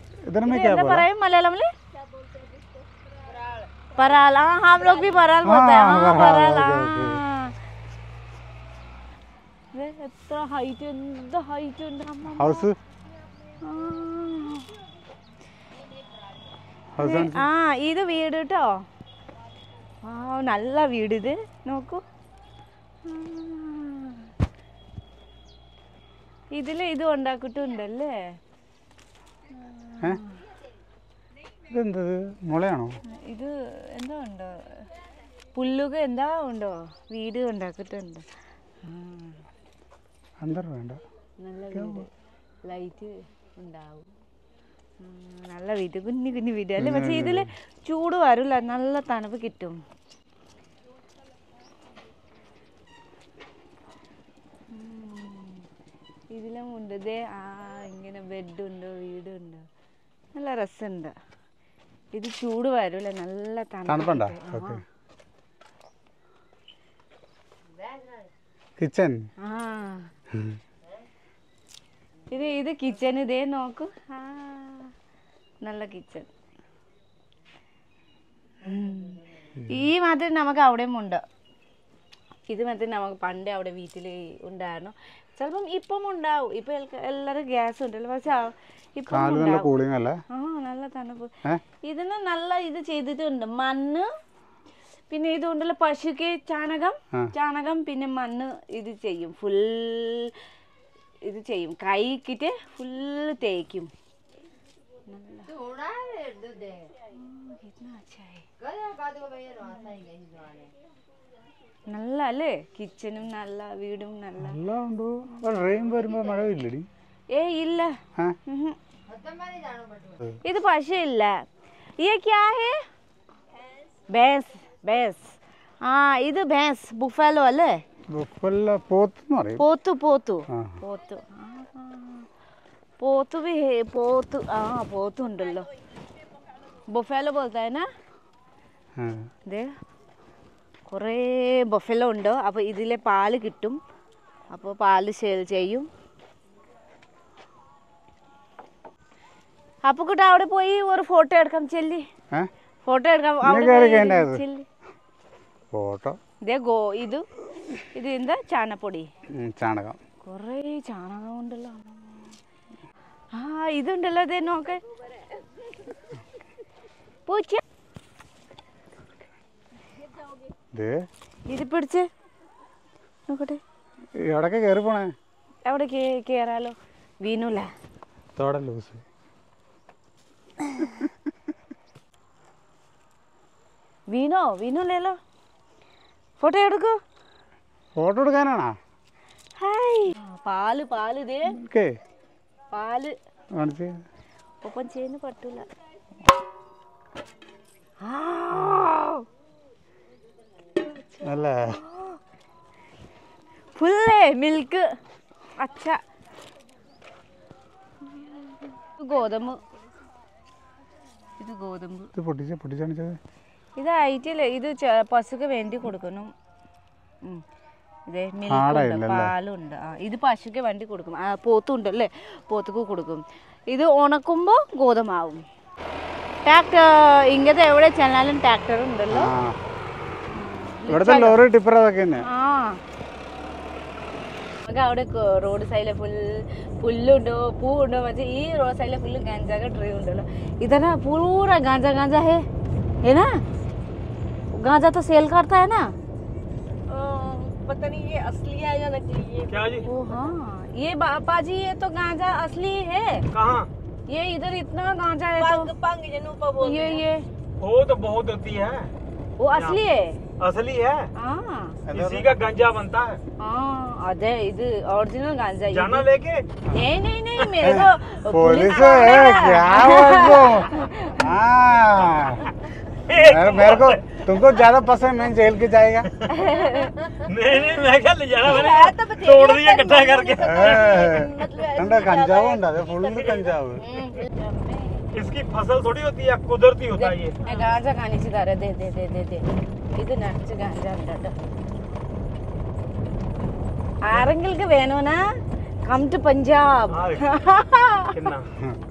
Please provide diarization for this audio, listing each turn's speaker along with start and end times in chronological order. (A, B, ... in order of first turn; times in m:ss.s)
0:00.3-0:01.1 A
0:00.4-0:01.7 B
0:03.9-0:07.6 B
0:05.4-0:07.2 A
0:09.7-0:12.7 B
0:12.4-0:12.8 A
0:13.6-0:14.8 B
0:17.0-0:17.5 A
0:17.0-0:18.9 B
0:20.0-0:22.0 B
0:23.0-0:24.3 B
0:26.5-0:28.4 B
0:29.5-0:30.4 B
0:31.7-0:33.0 A
0:33.0-0:34.9 B
0:35.5-0:38.3 B
0:38.8-0:39.4 B
0:40.4-0:41.0 A
0:41.4-0:42.1 B
0:41.7-0:42.1 A
0:42.6-0:44.1 B
0:45.0-0:49.8 B
0:46.8-0:47.5 A
0:54.7-0:55.7 B
0:56.3-0:59.7 B
1:00.3-1:01.2 B
1:02.1-1:04.8 B
1:03.9-1:04.8 A
1:08.8-1:09.2 A
1:09.4-1:10.1 B
1:10.3-1:10.6 A
1:12.3-1:14.9 B
1:15.6-1:16.3 B
1:18.6-1:21.2 B
1:22.5-1:29.7 B
1:29.1-1:30.2 A
1:30.3-1:34.1 B
1:35.1-1:40.4 B
1:41.2-1:43.9 B
1:45.1-1:46.0 B
1:46.6-1:48.5 B
1:49.5-1:50.1 B
1:51.9-1:54.6 B
1:54.4-1:56.9 A
1:57.3-1:58.8 B
2:00.4-2:01.4 B
2:02.0-2:02.8 B
2:04.1-2:07.8 B
2:08.1-2:09.6 A
2:09.6-2:12.3 B
2:10.5-2:10.8 A
2:13.0-2:15.7 B
2:16.9-2:17.9 B
2:19.0-2:19.3 A
2:19.5-2:19.7 B
2:20.9-2:23.8 B
2:24.5-2:25.9 B
2:29.9-2:32.1 B
2:32.8-2:34.7 B
2:33.4-2:34.4 A
2:35.7-2:36.2 A
2:36.4-2:39.1 B
2:39.3-2:40.0 A
2:40.2-2:42.4 B
2:43.3-2:44.8 B
2:47.3-2:47.6 B
2:50.7-2:51.0 A
2:51.5-2:52.1 B
2:53.3-2:53.6 B
2:54.2-2:55.1 A
2:55.6-2:57.7 B
2:58.4-2:59.0 A
3:00.6-3:01.0 B
3:04.1-3:05.2 B
3:06.4-3:07.0 B
3:08.0-3:08.8 A
3:09.6-3:11.6 B
3:11.5-3:12.0 A
3:12.7-3:13.2 B
3:13.6-3:14.0 A
3:14.6-3:15.7 B
3:18.0-3:19.3 B
3:20.8-3:22.2 B
3:21.2-3:21.8 A
3:23.8-3:25.0 B
3:25.6-3:26.0 B
3:28.1-3:29.6 B
3:31.4-3:32.1 B
3:32.2-3:33.2 A
3:33.8-3:36.3 B
3:38.1-3:45.4 B
3:38.5-3:39.3 A
3:46.5-3:49.3 B
3:49.1-3:49.6 A
3:50.3-3:51.4 B
3:50.9-3:52.3 A
3:52.2-3:52.8 B
3:54.6-4:02.5 B
4:03.0-4:03.3 B
4:04.5-4:06.0 B
4:06.9-4:10.3 C
4:09.5-4:09.9 D
4:09.9-4:13.3 B
4:13.3-4:13.7 D
4:14.1-4:15.7 B
4:15.4-4:17.0 C
4:16.6-4:17.3 B
4:17.6-4:18.9 D
4:19.4-4:20.2 B
4:19.5-4:19.8 D
4:20.4-4:21.1 D
4:21.2-4:21.8 B
4:21.9-4:22.3 A
4:21.9-4:23.2 D
4:23.4-4:26.1 B
4:25.7-4:26.5 D
4:26.7-4:31.3 B
4:27.6-4:32.5 A
4:32.9-4:34.2 D
4:33.2-4:36.1 A
4:36.1-4:41.1 D
4:36.3-4:37.0 B
4:38.4-4:45.0 C
4:40.4-4:43.8 A
4:43.8-4:44.3 B
4:45.1-4:47.5 D
4:47.0-4:51.3 B
4:54.0-4:58.2 B
4:56.9-4:57.3 D
4:58.1-4:58.6 D